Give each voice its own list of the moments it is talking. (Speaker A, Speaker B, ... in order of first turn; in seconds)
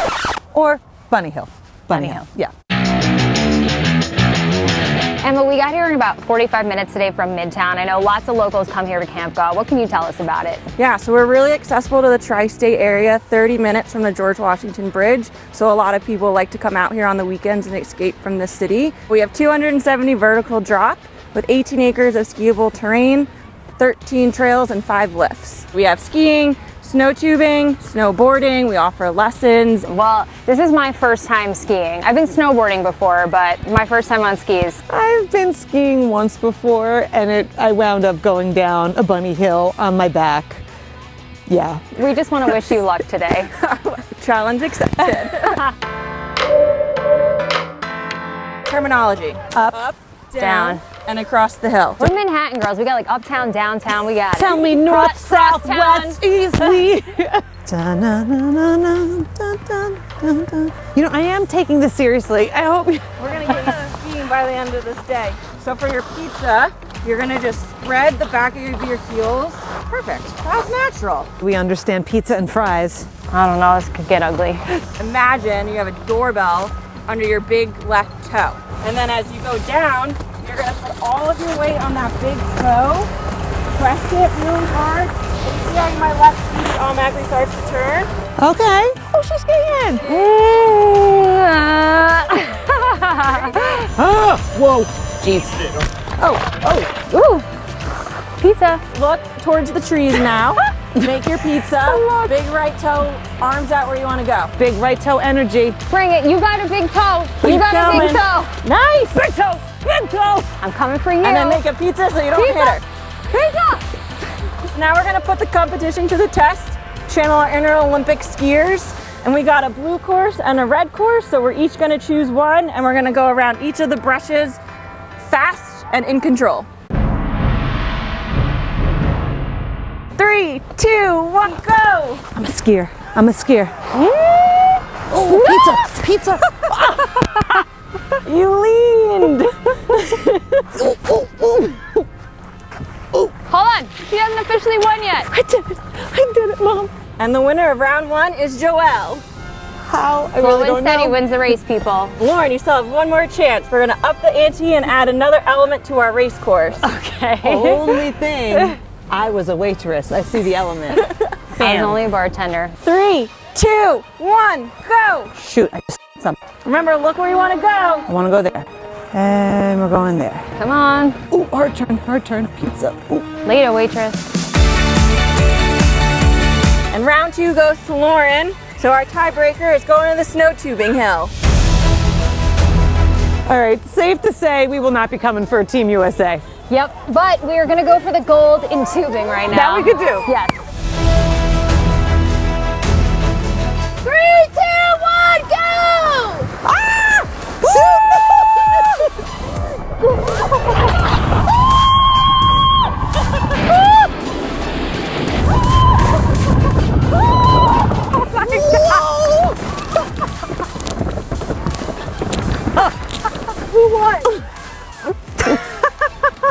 Speaker A: 0.5-2.5, 34.9-40.6, 41.5-42.6, 54.3-63.5, 71.4-73.1, 88.4-90.2, 94.0-96.9, 101.0-102.3, 104.6-105.8, 109.1-110.5, 132.3-133.7, 135.1-137.6, 138.3-139.4, 140.8-142.0, 145.3-146.9, 149.8-151.2, 157.4-161.0, 161.6-162.0, 165.4-166.4, 168.1-170.5, 171.3-173.3, 183.5-186.4, 189.5-190.3, 196.6-198.9, 208.4-209.5, 215.4-215.8
Speaker B: 1.9-2.2, 5.2-10.6, 29.9-34.8, 41.9-43.5, 50.4-50.8, 52.0-56.9, 73.3-74.8, 90.1-93.9, 96.9-97.5, 98.4-98.8, 105.9-108.5, 110.6-111.6, 112.3-113.8, 135.3-135.9, 143.5-145.3, 150.4-152.1, 156.8-158.0, 161.6-162.8, 170.6-171.2, 173.4-174.3, 186.7-190.5, 194.1-196.5, 208.2-209.0
Speaker C: 10.8-29.9, 43.5-45.6, 48.7-52.1, 63.2-71.3, 75.0-83.1, 83.8-88.1, 98.9-104.5, 107.4-109.3, 111.2-112.8, 114.7-124.6, 125.2-126.7, 130.2-132.2, 134.1-134.8, 139.3-140.2, 147.2-149.2, 152.2-156.8, 162.8-165.3, 166.7-168.1, 176.9-181.3, 208.6-209.0, 213.7-214.3